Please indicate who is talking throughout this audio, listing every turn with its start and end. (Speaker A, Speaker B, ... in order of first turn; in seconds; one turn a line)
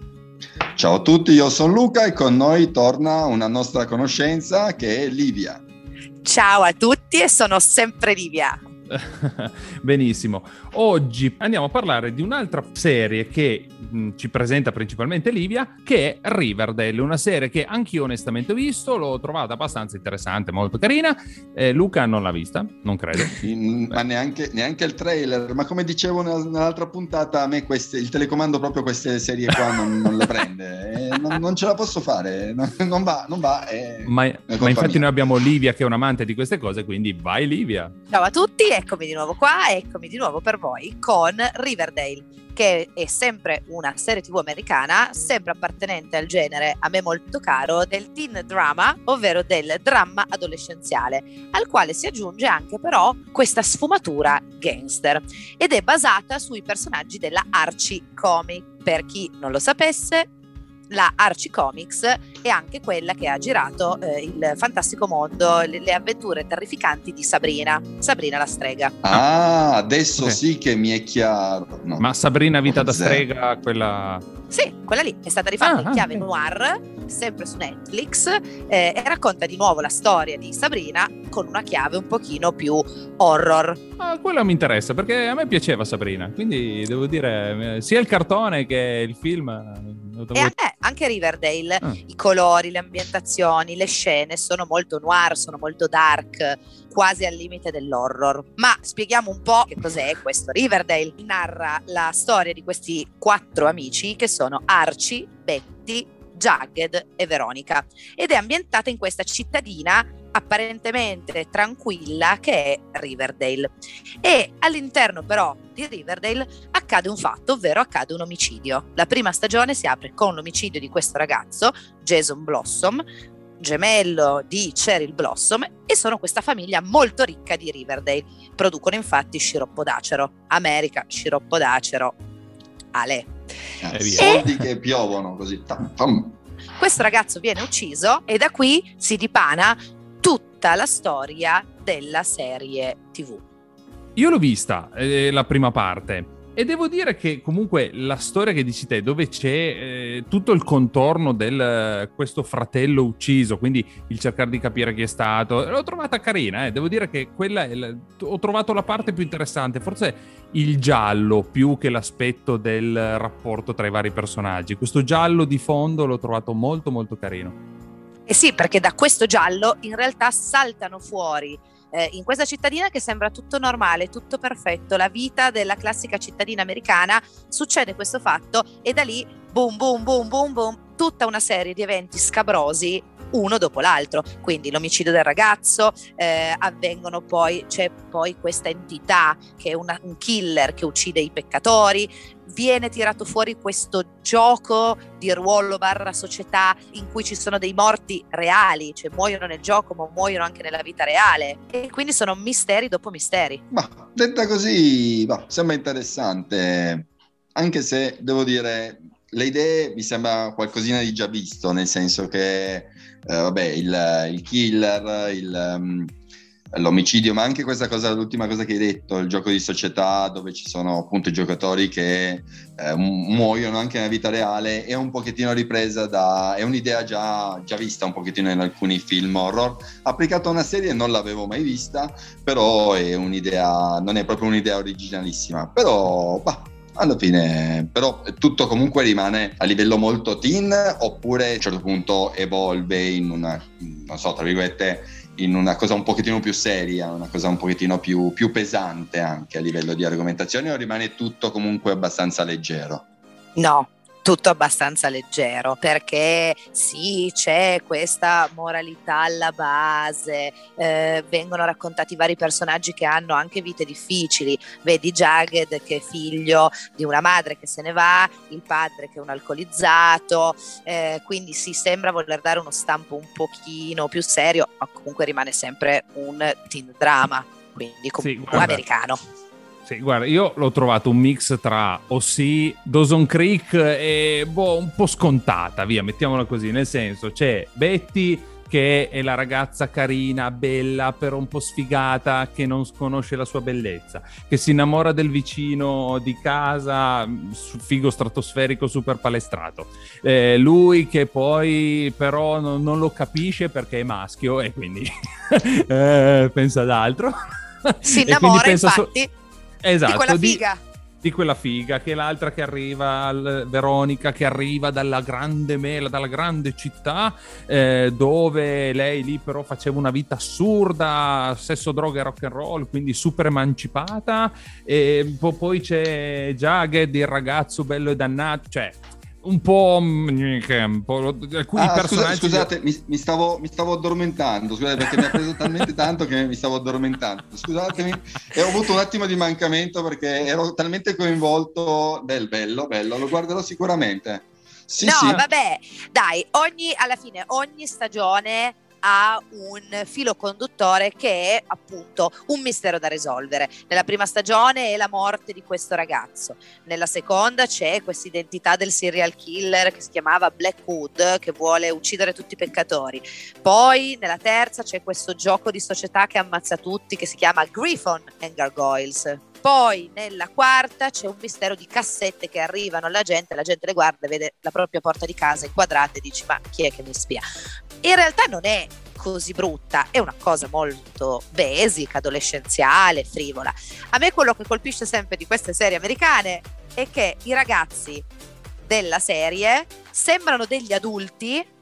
Speaker A: 0.8-5.6
Speaker B: 6.2-8.6
Speaker C: 8.9-24.0
Speaker A: 23.4-35.1
Speaker C: 34.1-37.9
Speaker B: 38.1-60.3
Speaker B: 60.9-69.0
Speaker A: 69.0-72.1
Speaker C: 72.0-74.2
Speaker A: 72.7-73.2
Speaker B: 74.5-83.8
Speaker C: 75.6-76.2
Speaker C: 84.0-90.5
Speaker B: 90.3-123.0
Speaker B: 123.6-132.2
Speaker B: 132.9-133.3
Speaker A: 133.8-136.4
Speaker C: 133.9-134.6
Speaker B: 134.2-134.4
Speaker B: 136.8-143.4
Speaker C: 144.2-167.6
Speaker B: 168.3-203.6
Speaker A: 203.7-216.1
Speaker A: 216.7-253.0
Speaker B: 253.6-279.2
Speaker C: 278.2-278.8
Speaker C: 279.9-309.1
Speaker B: 308.0-309.3
Speaker C: 309.8-310.6
Speaker B: 310.1-310.8
Speaker C: 311.2-332.7
Speaker A: 331.8-345.4
Speaker B: 345.0-377.4
Speaker B: 378.0-388.3
Speaker B: 388.9-391.7